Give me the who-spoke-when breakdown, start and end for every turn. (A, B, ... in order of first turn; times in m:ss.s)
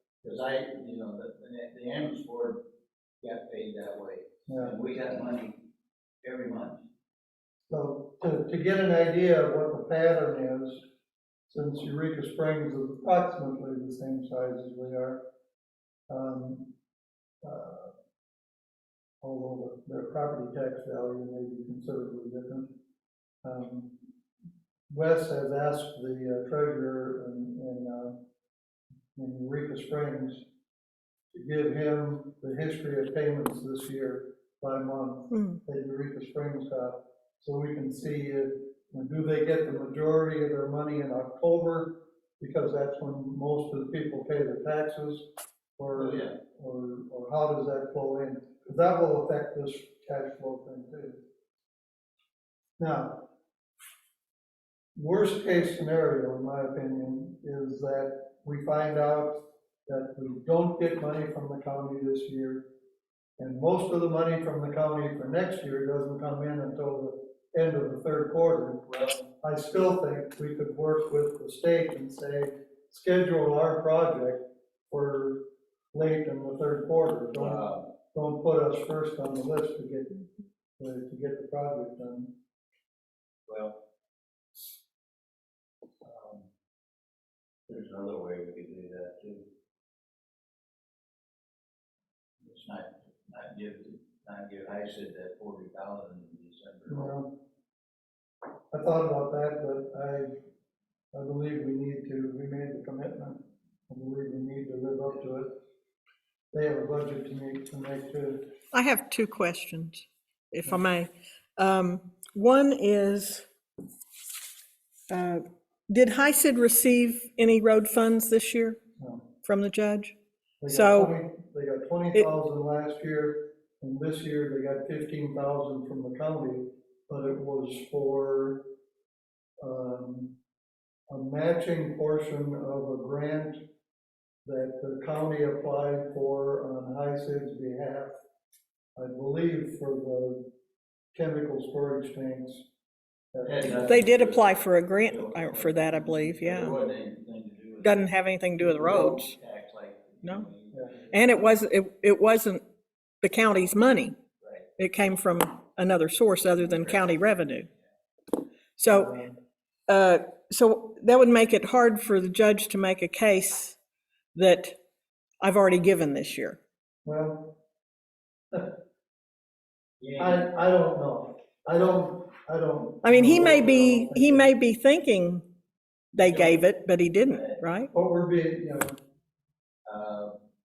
0:00.2-0:02.6 A
0:03.2-0:05.6 A
0:04.5-0:04.8 B
0:06.2-0:06.8 A
0:07.7-0:10.8 B
0:11.5-0:15.2 B
0:16.1-0:16.7 B
0:17.4-0:17.9 B
0:19.2-0:22.7 B
0:23.4-0:24.0 B
0:24.9-0:28.2 B
0:29.2-0:30.4 B
0:31.3-0:51.2 B
0:35.3-0:35.6 C
0:45.9-0:46.3 A
0:52.8-0:53.2 B
0:55.0-1:02.6 B
1:03.4-1:08.8 B
1:08.9-1:09.3 A
1:09.4-1:20.2 B
1:17.4-1:17.9 A
1:20.8-1:22.3 B
1:23.5-1:23.8 A
1:26.0-1:26.5 A
1:27.7-1:29.4 A
1:32.4-1:37.1 A
1:36.9-1:37.3 B
1:38.7-1:40.3 B
1:41.1-1:45.5 B
1:46.5-1:48.5 B
1:48.7-1:53.4 C
1:55.1-1:58.8 C
1:59.0-1:59.3 B
1:59.4-2:00.1 C
2:00.6-2:08.6 B
2:00.7-2:01.1 C
2:09.6-2:10.3 B
2:11.1-2:13.6 B
2:14.4-2:18.1 B
2:19.0-2:20.4 B
2:21.1-2:22.6 B
2:23.3-2:23.9 B
2:23.4-2:28.0 A
2:23.8-2:26.8 C
2:27.8-2:29.3 C
2:28.6-2:31.5 A
2:30.2-2:30.5 C
2:31.1-2:32.6 C
2:33.2-2:34.2 C
2:34.4-2:34.7 A
2:34.8-2:37.7 C
2:36.6-2:37.6 A
2:38.8-2:39.1 C
2:38.9-2:39.3 B
2:39.9-2:43.8 C
2:44.3-2:44.8 C
2:45.4-2:46.6 C
2:47.0-2:47.5 B
2:50.0-2:50.5 A
2:50.2-2:54.5 B
2:53.0-2:55.4 C
2:56.1-2:57.9 C
2:56.2-2:57.6 A
2:57.9-2:59.0 B
2:59.8-3:00.4 A